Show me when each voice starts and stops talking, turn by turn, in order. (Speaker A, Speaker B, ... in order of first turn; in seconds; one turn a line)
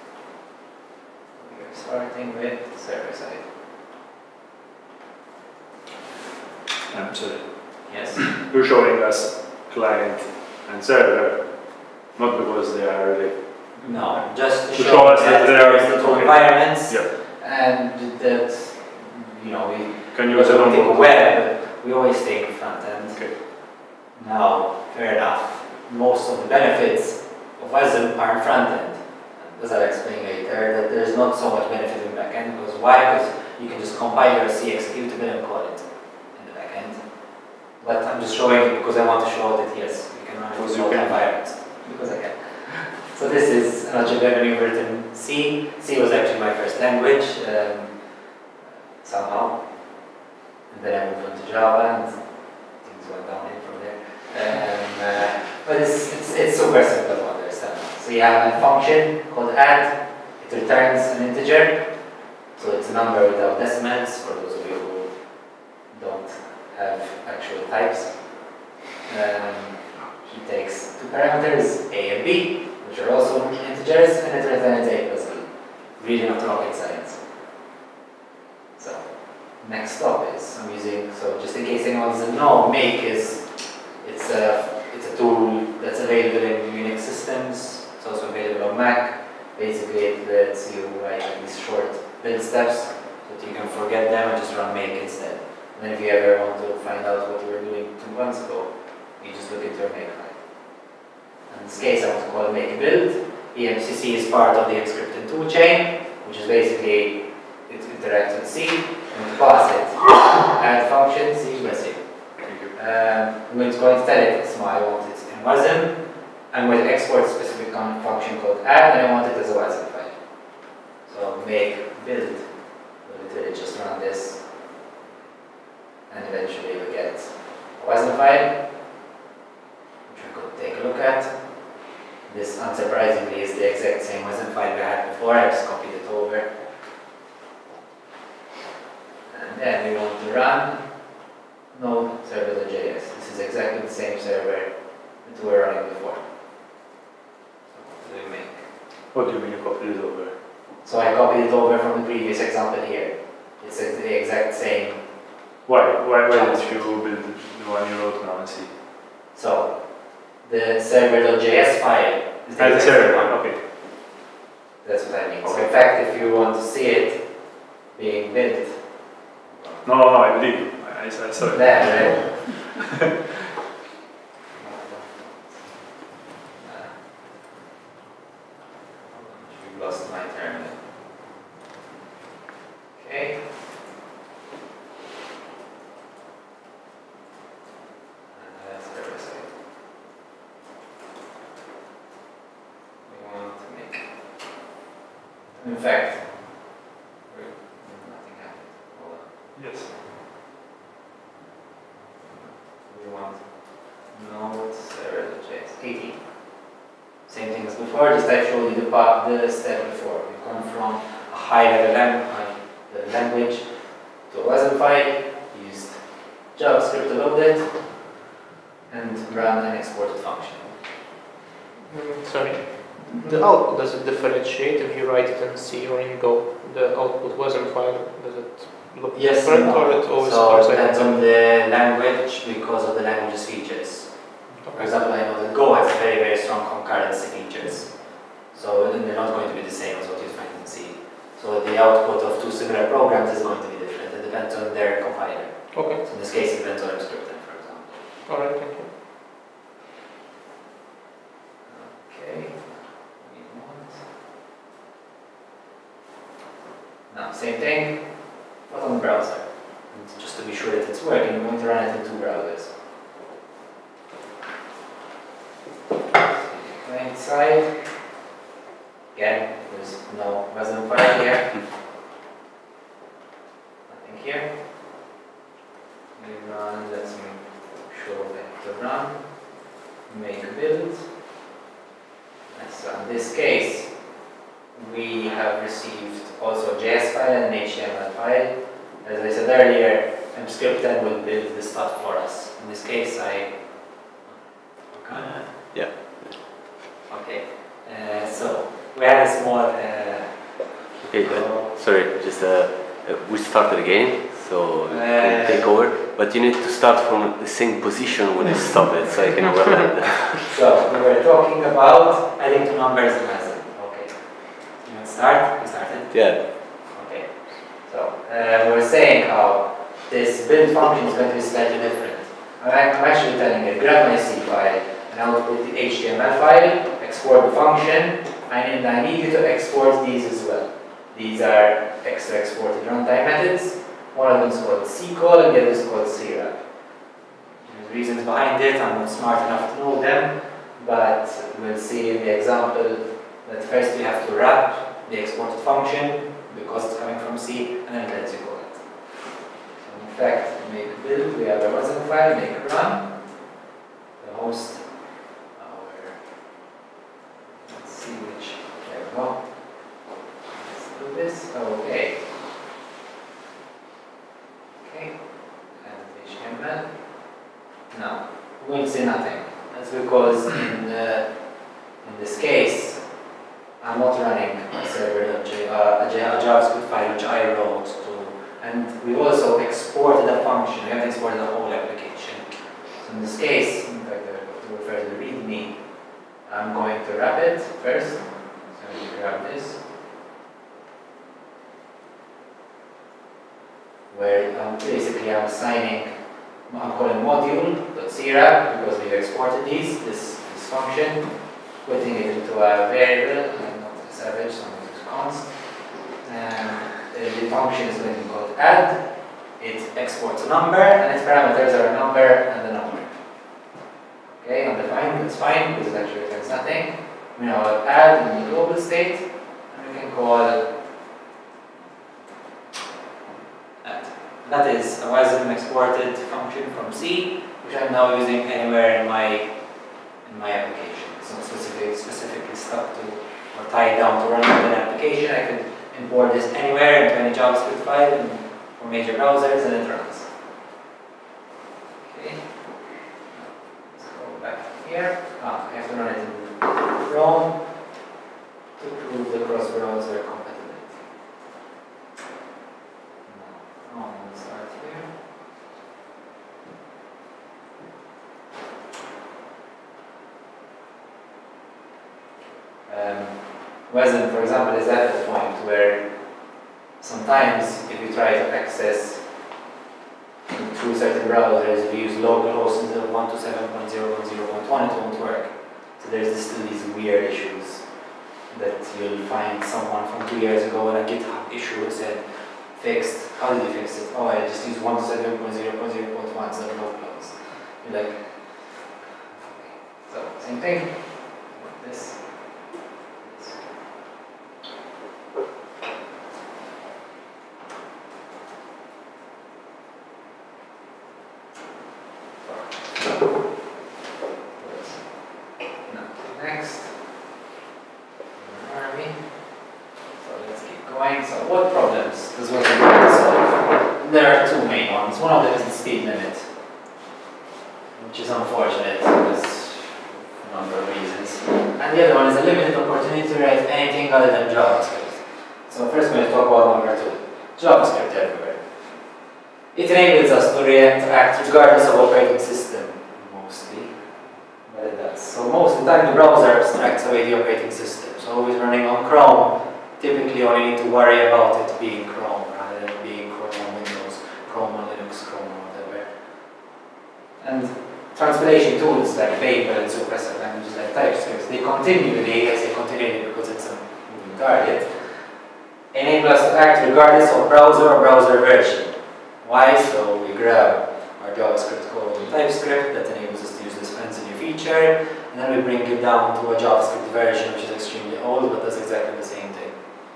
Speaker A: 1.4-3.4
Speaker B: 6.9-17.1
Speaker A: 6.9-8.3
Speaker A: 13.8-23.5
Speaker B: 20.1-21.1
Speaker A: 24.1-37.0
Speaker A: 37.8-48.0
Speaker B: 40.5-41.6
Speaker A: 49.0-50.0
Speaker A: 50.7-65.4
Speaker A: 65.9-68.3
Speaker A: 69.0-77.2
Speaker A: 78.8-100.8
Speaker A: 101.5-120.2
Speaker B: 112.4-112.7
Speaker A: 121.0-124.4
Speaker A: 126.1-128.6
Speaker A: 130.1-131.3
Speaker A: 132.2-136.5
Speaker A: 139.3-140.9
Speaker A: 141.7-146.2
Speaker A: 147.7-148.6
Speaker B: 149.1-150.3
Speaker A: 150.8-155.0
Speaker B: 155.6-158.7
Speaker A: 156.2-156.9
Speaker A: 159.3-163.4
Speaker B: 162.6-163.6
Speaker A: 164.8-169.8
Speaker B: 165.4-165.7
Speaker B: 169.8-172.9
Speaker A: 171.5-172.4
Speaker A: 174.5-175.8
Speaker A: 176.5-176.9
Speaker A: 179.1-180.8
Speaker A: 182.9-183.4
Speaker A: 188.3-189.5
Speaker A: 193.0-194.1
Speaker A: 195.6-196.6
Speaker A: 197.3-200.0
Speaker B: 199.5-199.9
Speaker A: 202.4-203.5
Speaker A: 204.0-206.2
Speaker A: 207.3-213.7
Speaker A: 214.2-217.9
Speaker A: 218.9-220.8
Speaker C: 221.9-231.2
Speaker A: 229.1-248.0
Speaker C: 234.6-234.9
Speaker C: 245.7-246.0
Speaker C: 248.3-248.9
Speaker A: 251.7-254.0
Speaker A: 257.1-262.7
Speaker A: 266.2-267.8
Speaker A: 269.1-271.6
Speaker A: 273.9-274.5
Speaker A: 276.1-279.3
Speaker A: 280.1-281.0
Speaker A: 282.5-283.9
Speaker A: 284.7-295.4
Speaker D: 295.1-296.5
Speaker A: 297.1-301.7
Speaker D: 301.0-310.5
Speaker A: 304.9-305.8
Speaker A: 310.5-336.6
Speaker D: 316.1-316.4
Speaker A: 337.6-348.9
Speaker A: 349.8-353.1
Speaker A: 354.2-356.2
Speaker A: 357.5-359.8
Speaker A: 360.6-362.2
Speaker A: 364.8-367.2
Speaker A: 367.9-373.1
Speaker A: 373.8-385.8
Speaker A: 386.4-389.8
Speaker A: 394.1-396.1
Speaker A: 396.6-413.1
Speaker A: 414.3-420.6
Speaker A: 423.8-429.5
Speaker A: 430.2-440.3
Speaker A: 442.0-442.6
Speaker A: 443.3-447.8
Speaker A: 448.8-451.1
Speaker A: 453.2-455.1
Speaker A: 462.9-466.1
Speaker A: 467.0-469.2
Speaker A: 470.5-477.9
Speaker A: 478.5-492.4
Speaker A: 493.2-493.6
Speaker A: 502.4-503.3
Speaker A: 504.6-506.9
Speaker A: 508.4-509.3
Speaker A: 510.2-516.5
Speaker A: 518.0-528.6
Speaker A: 529.7-534.0
Speaker A: 534.6-546.1
Speaker A: 547.4-555.0
Speaker A: 555.9-569.8